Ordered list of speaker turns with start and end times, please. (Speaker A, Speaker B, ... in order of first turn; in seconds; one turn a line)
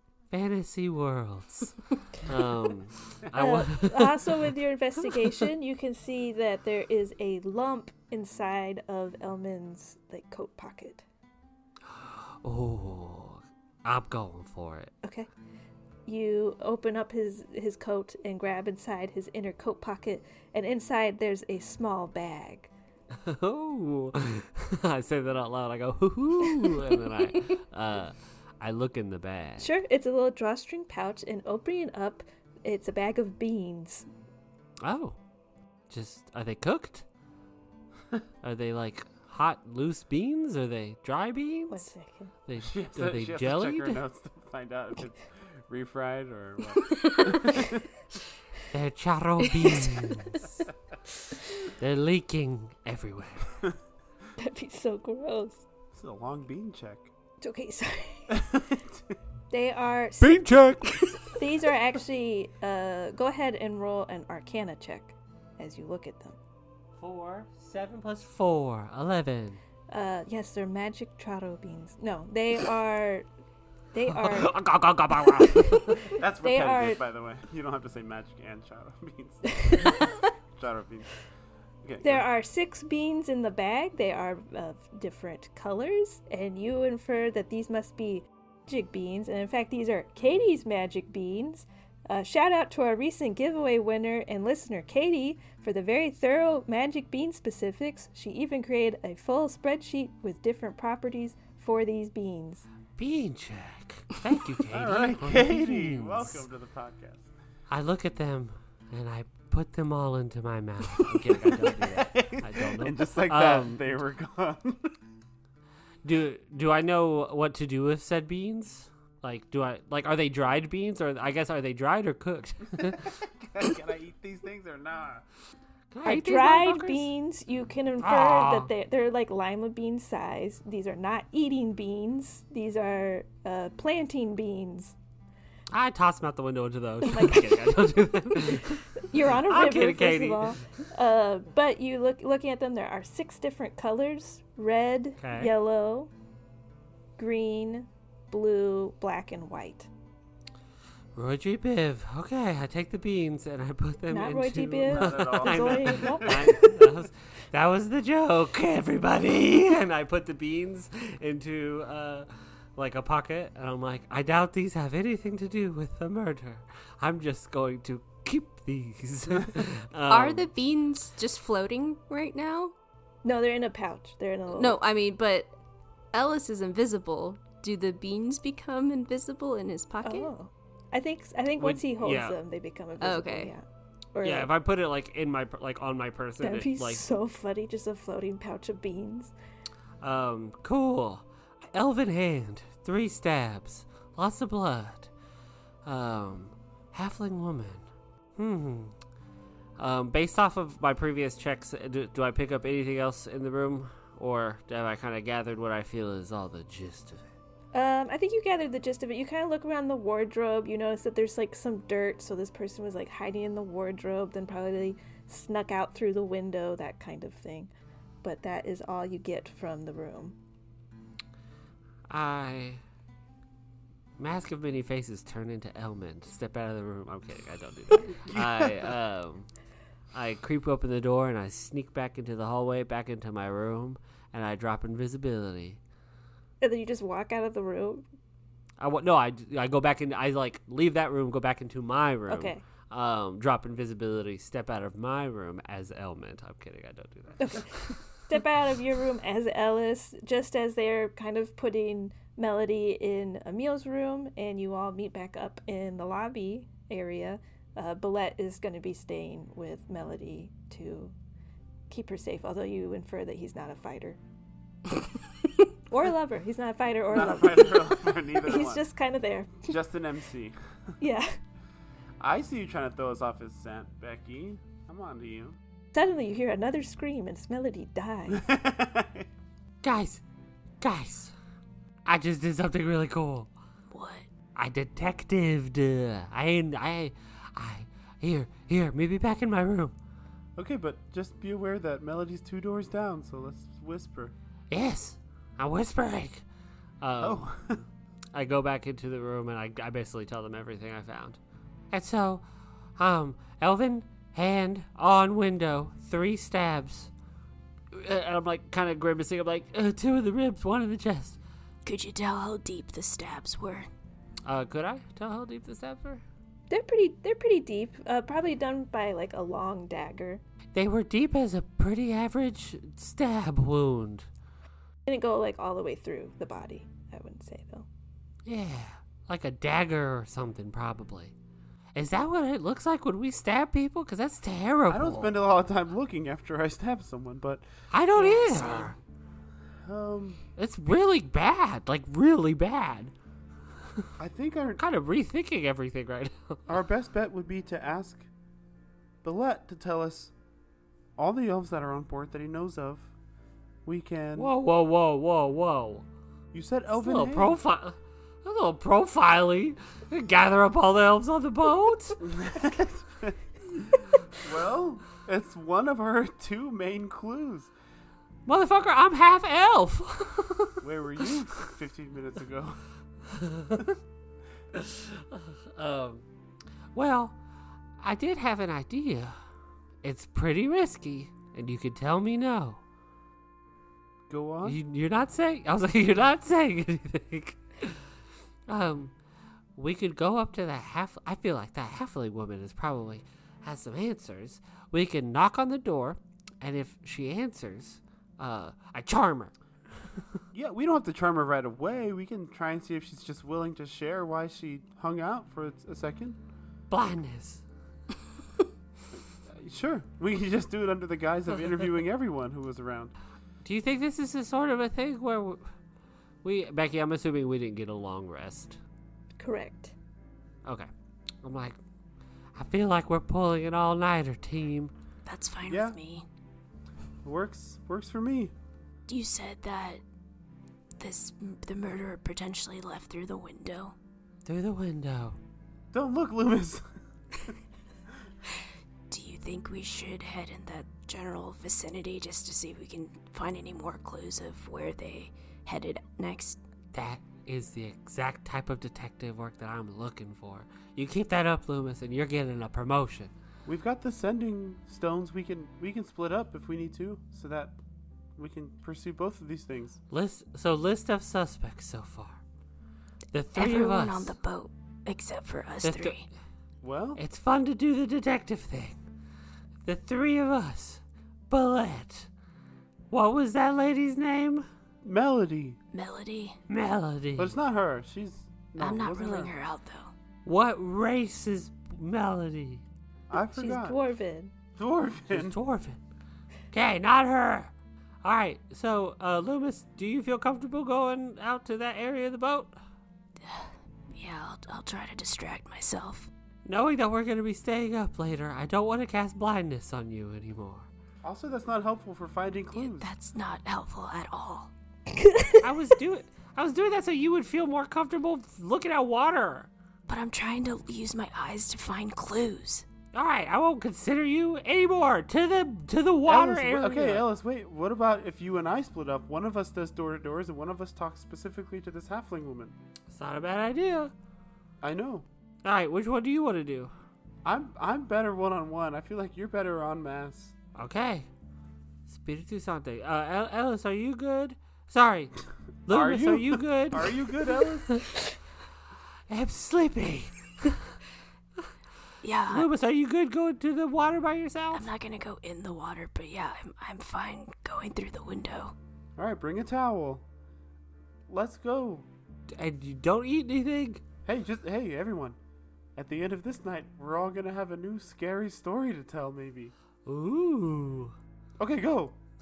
Speaker A: 0.3-4.5
Speaker B: 3.3-11.1
Speaker A: 11.9-14.9
Speaker B: 15.0-15.3
Speaker B: 16.1-22.7
Speaker A: 23.1-29.7
Speaker B: 29.6-34.1
Speaker A: 34.8-35.2
Speaker A: 35.9-37.0
Speaker A: 38.4-41.8
Speaker B: 41.7-42.3
Speaker A: 42.5-44.0
Speaker C: 42.6-47.9
Speaker D: 47.0-47.4
Speaker A: 48.7-50.6
Speaker A: 51.8-53.6
Speaker B: 54.4-55.6
Speaker C: 55.9-57.1
Speaker B: 57.4-58.4
Speaker C: 58.3-59.1
Speaker B: 59.5-60.6
Speaker A: 60.2-61.4
Speaker B: 61.3-66.4
Speaker A: 67.0-69.6
Speaker B: 69.9-73.3
Speaker B: 73.9-74.5
Speaker A: 74.1-76.1
Speaker B: 75.5-77.0
Speaker C: 76.1-79.9
Speaker B: 79.5-80.1
Speaker C: 80.5-81.2
Speaker C: 81.8-82.3
Speaker B: 82.0-102.7
Speaker A: 103.0-106.4
Speaker C: 104.7-107.3
Speaker A: 107.7-113.9
Speaker C: 111.2-115.0
Speaker A: 116.0-123.2
Speaker C: 123.0-125.2
Speaker A: 125.9-127.1
Speaker B: 126.0-134.9
Speaker A: 128.0-128.7
Speaker A: 135.7-140.8
Speaker B: 137.0-146.1
Speaker A: 145.2-145.5
Speaker B: 147.2-149.9
Speaker A: 151.1-170.5
Speaker B: 154.1-156.8
Speaker C: 154.9-156.7
Speaker D: 170.1-172.7
Speaker B: 173.2-174.8
Speaker D: 174.6-175.6
Speaker D: 176.1-180.3
Speaker B: 180.0-184.5
Speaker A: 181.6-182.4
Speaker D: 183.0-183.5
Speaker A: 184.2-187.0
Speaker B: 186.4-189.3
Speaker A: 190.0-195.1
Speaker A: 195.8-197.8
Speaker A: 198.4-198.9
Speaker A: 199.8-207.2
Speaker B: 207.7-217.7
Speaker B: 218.2-220.4
Speaker A: 222.1-222.8
Speaker A: 224.2-229.5
Speaker C: 228.1-228.9
Speaker A: 230.1-235.8
Speaker B: 236.6-238.1
Speaker A: 238.8-248.0
Speaker B: 242.3-242.6
Speaker B: 247.4-261.1
Speaker B: 261.9-264.2
Speaker B: 265.9-269.7
Speaker C: 267.1-268.8
Speaker C: 269.6-270.6
Speaker B: 271.0-271.4
Speaker C: 272.2-275.6
Speaker B: 275.9-278.5
Speaker C: 278.3-279.3
Speaker A: 279.8-280.2
Speaker A: 280.8-281.3
Speaker A: 282.1-283.5
Speaker D: 283.9-284.3
Speaker A: 284.6-289.9
Speaker C: 290.6-294.3
Speaker A: 294.7-296.4
Speaker A: 297.0-297.5
Speaker C: 297.2-297.8
Speaker A: 298.3-301.4
Speaker A: 301.9-307.1
Speaker A: 307.9-311.4
Speaker D: 311.8-313.9
Speaker A: 314.4-316.2
Speaker B: 316.7-320.4
Speaker A: 320.7-324.3
Speaker B: 325.1-327.9
Speaker A: 328.4-331.3
Speaker A: 331.9-335.3
Speaker C: 334.9-337.6
Speaker A: 337.9-338.9
Speaker D: 338.1-338.9
Speaker C: 339.8-340.4
Speaker A: 340.6-343.1
Speaker C: 344.2-344.8
Speaker A: 344.8-346.6
Speaker C: 346.7-348.3
Speaker C: 349.2-350.3
Speaker C: 351.1-353.1
Speaker C: 353.9-354.5
Speaker A: 354.4-356.1
Speaker C: 356.5-357.6
Speaker A: 356.9-362.2
Speaker C: 362.2-367.7
Speaker A: 368.4-370.8
Speaker C: 370.8-372.8
Speaker A: 373.3-373.8
Speaker A: 374.7-376.3
Speaker A: 376.9-377.4
Speaker A: 378.0-379.4
Speaker A: 380.0-382.8
Speaker C: 384.3-384.8
Speaker A: 384.6-388.0
Speaker A: 388.7-389.1
Speaker A: 389.8-399.5
Speaker C: 400.5-406.4
Speaker A: 406.9-407.6
Speaker C: 409.1-413.1
Speaker A: 413.6-415.6
Speaker A: 416.4-418.8
Speaker B: 419.4-419.9
Speaker A: 420.6-420.9
Speaker A: 421.4-421.8
Speaker A: 422.6-424.9
Speaker D: 425.3-426.2
Speaker C: 425.7-426.0
Speaker C: 427.2-428.5
Speaker D: 429.1-430.0
Speaker D: 431.0-433.9
Speaker A: 434.4-435.4
Speaker C: 435.9-436.8
Speaker D: 439.1-446.6
Speaker A: 446.9-453.3
Speaker C: 453.6-457.8
Speaker C: 458.4-460.0
Speaker A: 460.1-462.4
Speaker A: 463.3-464.3
Speaker D: 463.6-466.3
Speaker A: 465.8-466.3
Speaker C: 466.8-467.2
Speaker A: 467.1-469.0
Speaker A: 469.8-472.3
Speaker A: 473.1-474.7
Speaker C: 475.0-475.8
Speaker D: 475.9-476.6
Speaker A: 476.7-477.6
Speaker C: 477.4-479.5
Speaker D: 478.8-480.1
Speaker A: 480.4-482.8
Speaker C: 483.3-484.0
Speaker B: 483.5-484.5
Speaker C: 484.8-485.6
Speaker A: 485.3-486.0
Speaker A: 486.7-487.7
Speaker A: 488.2-492.7
Speaker D: 493.4-496.3
Speaker A: 496.6-500.9
Speaker C: 501.2-503.1
Speaker D: 502.8-504.7
Speaker B: 505.1-505.6
Speaker A: 505.6-509.7
Speaker D: 510.1-512.9
Speaker A: 513.1-517.2
Speaker C: 516.2-522.7
Speaker A: 523.1-524.1
Speaker C: 524.8-525.3
Speaker A: 525.6-526.9
Speaker C: 527.4-530.5
Speaker A: 530.7-531.3
Speaker A: 532.1-538.1
Speaker C: 535.9-538.0
Speaker A: 539.3-540.8
Speaker D: 542.2-542.7
Speaker A: 542.5-544.8
Speaker D: 544.7-548.7
Speaker C: 549.2-550.2
Speaker C: 551.3-552.1
Speaker A: 552.5-554.0
Speaker C: 554.3-555.4
Speaker C: 556.0-559.7
Speaker A: 560.0-561.1
Speaker C: 561.6-562.1